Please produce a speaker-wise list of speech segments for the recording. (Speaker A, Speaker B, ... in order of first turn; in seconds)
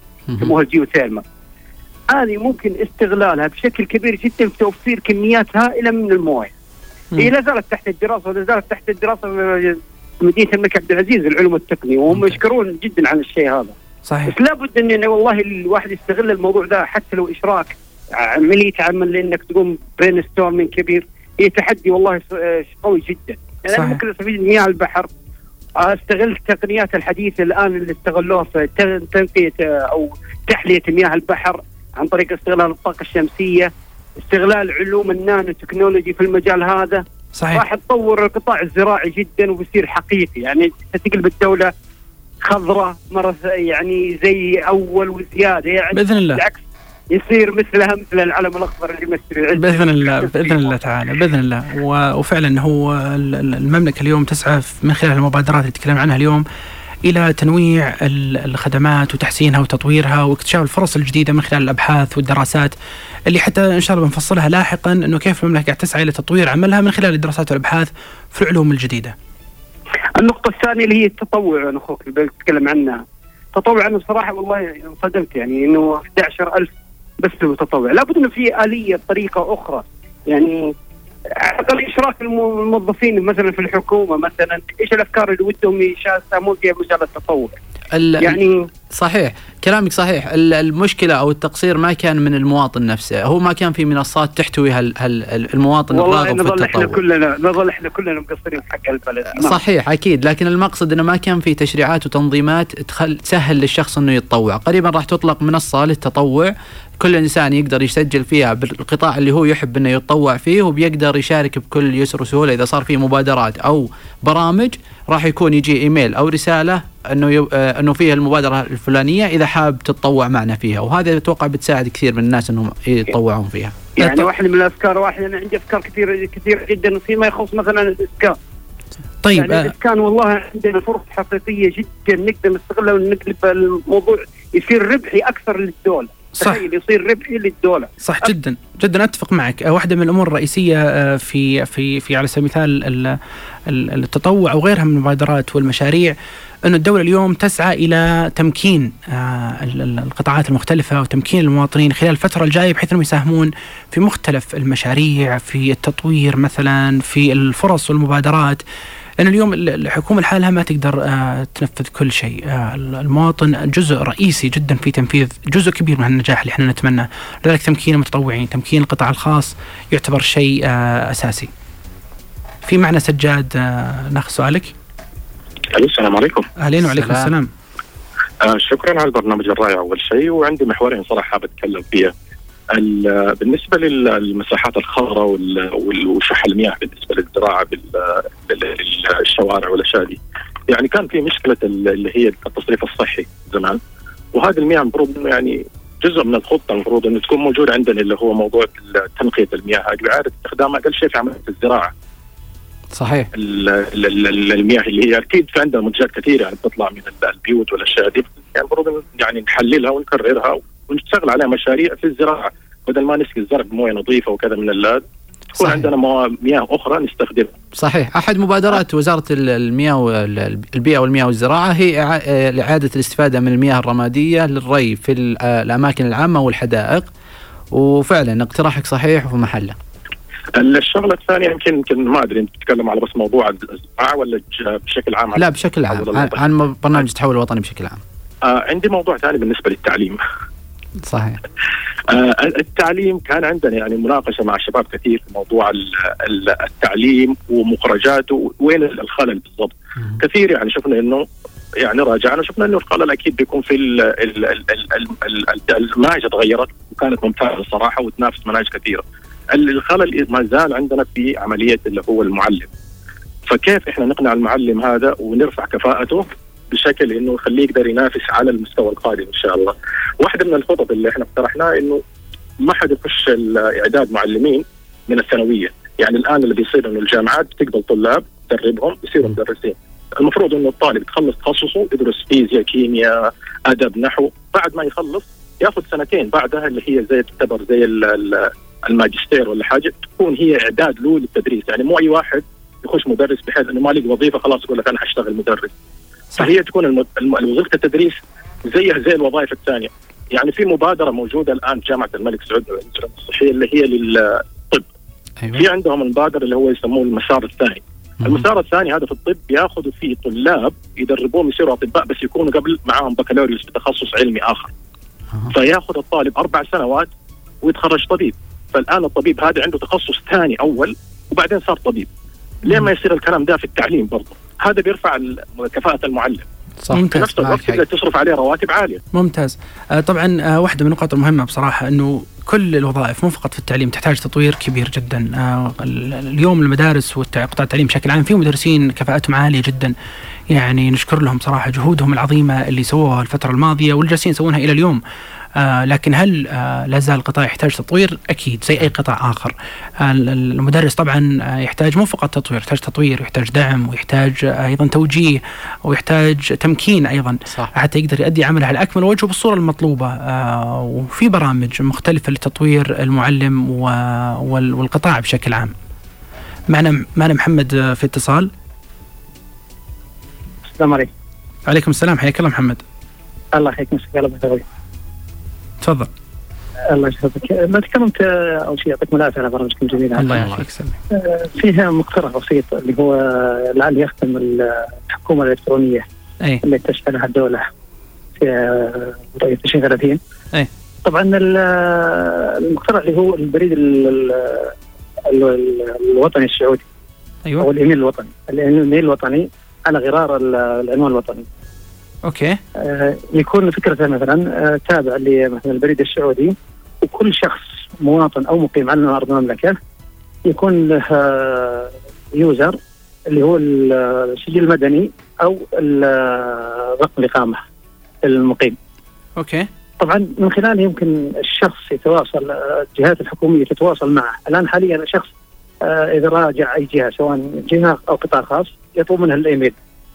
Speaker A: 0.3-0.6, 87.9-88.4, 88.9-97.0, 99.3-123.8, 176.8-177.3, 202.9-203.3, 215.6-215.9, 217.8-227.1, 227.7-229.8, 235.3-238.0, 241.0-241.4, 305.4-305.7, 326.8-327.8, 380.3-380.6
Speaker B: 0.4-1.2, 2.1-6.5, 7.2-13.7, 14.3-25.1, 25.8-41.7, 42.4-46.6, 47.1-50.7, 70.2-80.7, 81.4-87.6, 88.2-88.7, 95.9-99.6, 124.0-128.4, 129.3-138.3
Speaker C: 14.1-14.3, 23.7-24.0, 37.4-37.6, 45.9-46.4, 49.6-56.4, 57.0-62.7, 63.3-69.1, 124.0-124.3, 129.2-129.7, 138.0-146.1, 146.7-158.6, 159.2-171.5, 172.6-174.7, 176.6-177.5, 326.9-327.3, 329.1-339.9, 340.5-345.0, 345.6-365.7, 366.7-368.5, 371.6-372.8, 375.8-376.1, 380.2-381.0, 402.2-402.6, 419.4-419.7
Speaker D: 175.7-176.5, 178.4-182.1, 182.7-193.8, 194.3-201.9, 203.3-215.0, 215.5-217.5, 230.6-236.4, 238.4-240.2, 242.1-251.2, 251.8-262.7, 263.5-272.0, 272.6-295.7, 296.4-304.9, 305.6-314.7, 315.5-317.1, 317.6-322.1, 322.6-326.4, 327.1-329.0
Speaker E: 370.8-371.1, 373.5-374.6, 376.9-380.4, 381.1-386.1, 386.6-387.7, 388.4-390.2, 391.0-394.7, 395.2-396.8, 397.6-401.4, 402.8-409.8, 410.4-417.6, 418.2-418.8, 420.0-425.3, 425.8-429.7